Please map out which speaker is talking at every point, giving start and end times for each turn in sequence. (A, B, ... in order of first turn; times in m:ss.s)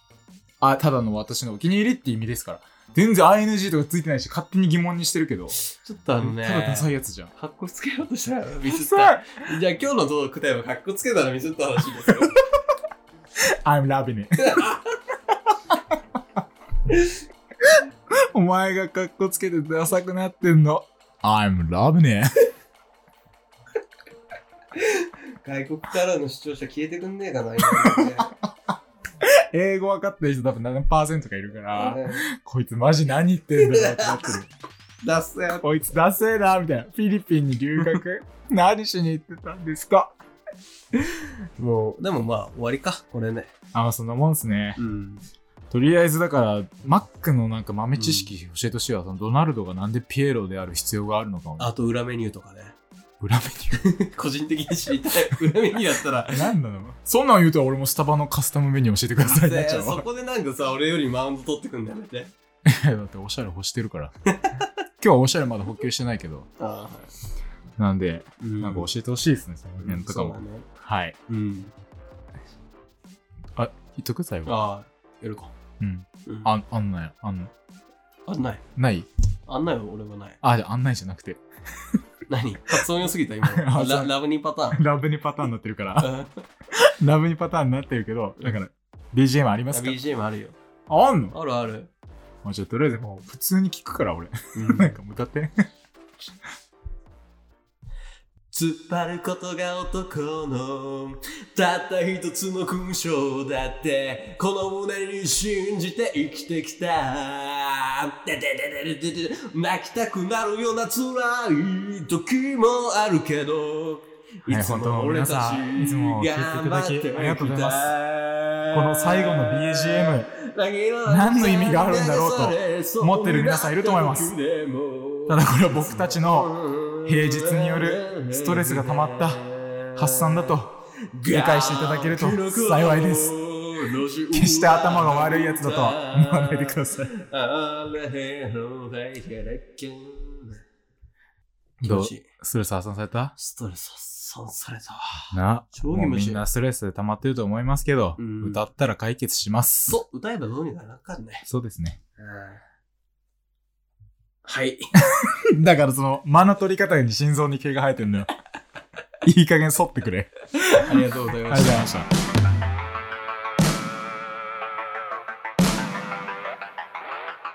0:00.6-0:05.6 A
0:05.6-0:12.4 B
0:06.2-0:07.3 A
0:08.6-0:09.5 A
0:13.4-0:14.6 A
0:14.4-0:14.9 B
0:16.9-0:17.2 B
0:17.6-0:22.4 A
0:24.7-0:28.3 B
0:27.6-0:28.5 A
0:29.2-0:34.5 A
0:31.7-0:32.3 B
0:33.6-0:34.2 B
0:35.0-0:35.6 B
0:35.6-0:40.2 A
0:41.0-0:43.5 B
0:43.7-0:44.8 A
0:44.8-0:45.2 B
0:45.7-0:51.7 A
0:48.0-0:48.3 B
0:51.6-0:52.8 B
0:53.2-0:53.8 A
0:53.7-0:56.5 B
0:56.3-1:00.0 A
0:59.2-1:02.3 B
1:02.6-1:04.1 A
1:04.3-1:04.6 B
1:05.0-1:06.5 A
1:06.6-1:07.1 B
1:07.8-1:11.2 A
1:08.4-1:08.9 B
1:09.8-1:10.7 B
1:11.3-1:11.7 B
1:13.6-1:14.5 A
1:14.5-1:15.5 B
1:15.8-1:17.5 A
1:18.3-1:18.6 B
1:18.8-1:19.1 A
1:19.5-1:20.4 B
1:20.4-1:22.0 A
1:22.3-1:24.8 B
1:23.4-1:24.1 A
1:24.7-1:26.1 A
1:26.0-1:26.4 B
1:26.7-1:30.0 A
1:29.7-1:30.6 B
1:30.9-1:31.4 A
1:31.3-1:31.9 B
1:32.4-1:35.5 A
1:34.6-1:35.0 B
1:38.5-2:10.6 B
1:54.5-1:57.9 A
1:58.7-2:00.3 A
2:01.1-2:04.4 A
2:05.3-2:06.5 A
2:07.0-2:09.4 A
2:10.0-2:10.7 A
2:11.2-2:20.6 B
2:11.3-2:13.4 A
2:14.3-2:17.1 A
2:21.8-2:23.4 A
2:21.8-2:22.3 B
2:23.4-2:26.4 B
2:25.3-2:30.0 A
2:28.2-2:28.6 B
2:29.9-2:31.5 B
2:31.4-2:32.0 A
2:32.2-2:32.6 B
2:34.4-2:34.9 B
2:35.0-2:38.3 A
2:39.2-2:42.1 A
2:40.6-2:41.8 B